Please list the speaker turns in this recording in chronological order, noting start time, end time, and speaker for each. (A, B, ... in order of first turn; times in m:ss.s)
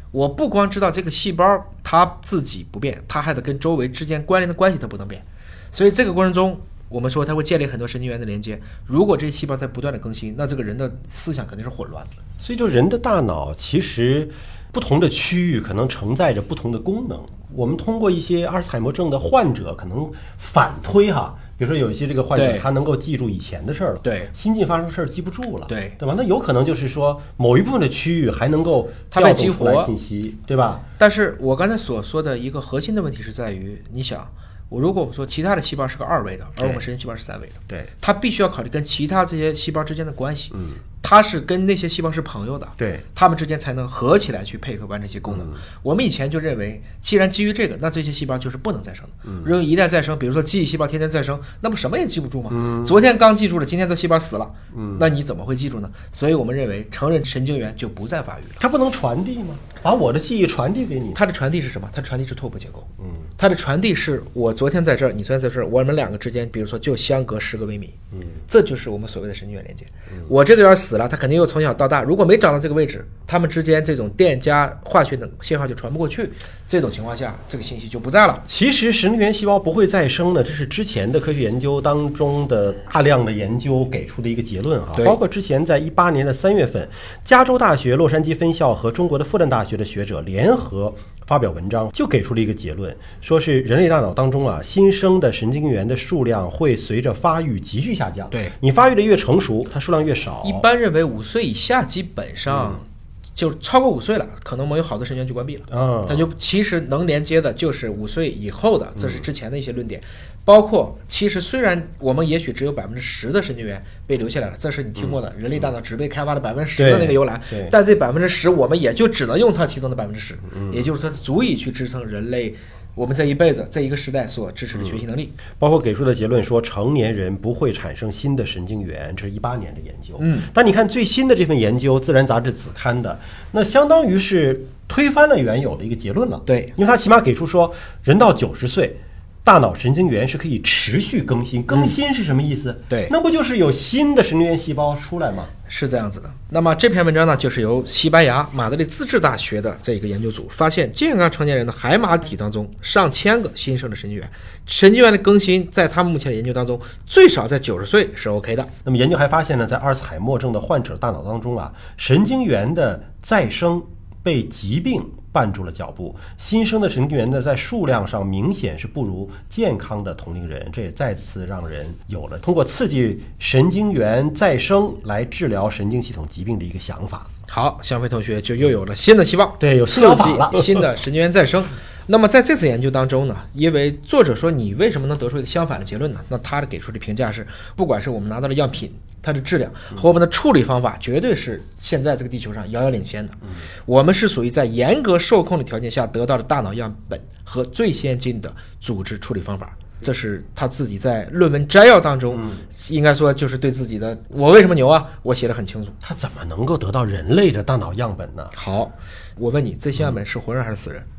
0:00.1-0:12.1 A
0:12.4-0:30.8 B
0:22.3-0:22.7 A
0:24.0-0:24.3 A
0:25.7-0:26.0 A
0:29.1-0:29.9 A
0:31.0-0:58.6 A
0:36.6-0:36.8 B
0:40.5-0:40.8 B
0:42.8-0:43.0 B
0:45.3-0:45.6 B
0:49.2-0:49.5 B
0:52.5-0:53.0 B
0:54.7-0:55.1 B
0:58.6-1:01.2 B
1:01.1-1:07.9 A
1:03.0-1:03.2 B
1:08.5-1:18.4 A
1:18.5-1:40.6 B
1:40.4-1:42.8 A
1:42.5-1:42.8 B
1:43.4-2:05.3 A
1:45.7-1:46.3 B
1:49.0-1:49.2 B
1:56.8-1:57.7 B
2:00.5-2:00.9 B
2:05.6-2:25.5 B
2:10.2-2:10.5 A
2:16.4-2:16.7 A
2:25.7-2:38.7 A
2:38.8-2:57.3 B
2:57.5-3:26.0 A
2:59.6-3:00.8 B
3:22.3-3:22.7 B
3:26.0-3:28.5 B
3:28.5-3:31.1 A